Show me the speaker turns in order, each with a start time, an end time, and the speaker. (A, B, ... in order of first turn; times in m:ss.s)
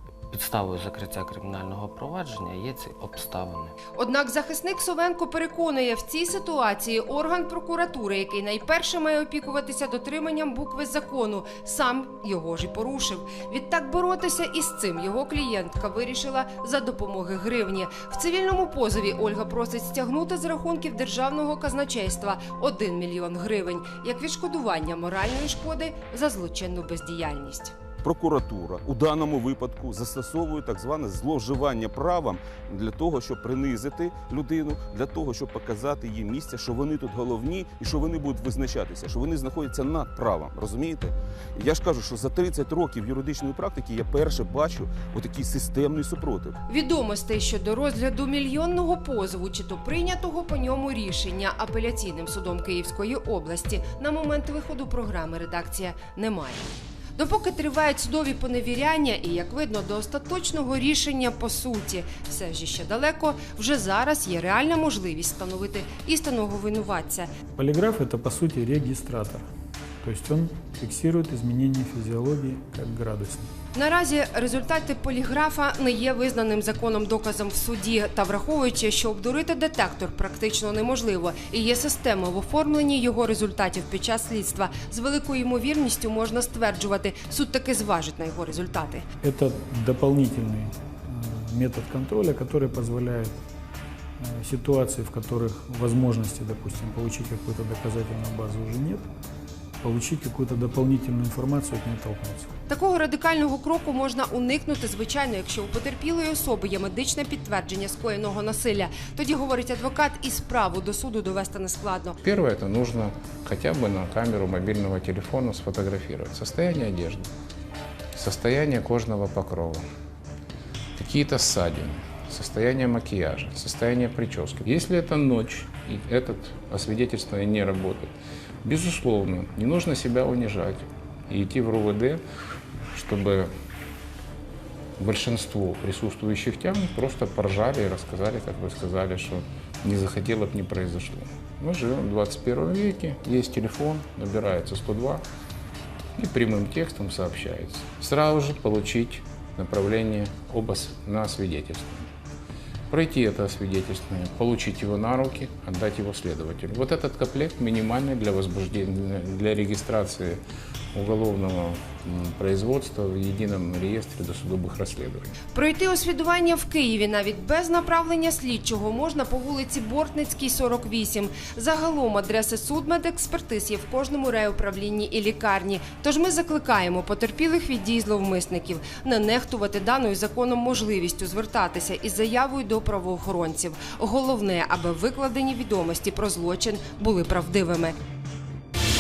0:00.3-0:03.7 A
0:03.9-0:27.7 B
0:28.0-0:46.6 C
0:46.7-1:07.3 B
1:07.5-1:09.5 D
1:10.0-1:13.5 D
1:13.7-1:29.1 B
1:29.2-1:33.4 D
1:34.2-1:39.1 D
1:39.8-1:42.5 D
1:42.7-1:52.2 B
1:52.2-1:57.3 E
1:58.1-1:59.8 E
2:01.0-2:08.1 E
2:08.6-2:12.2 E
2:12.9-2:13.5 E
2:15.0-2:25.2 E
2:26.2-2:32.1 E
2:32.9-2:40.4 E
2:40.9-2:45.3 E
2:45.5-3:08.0 B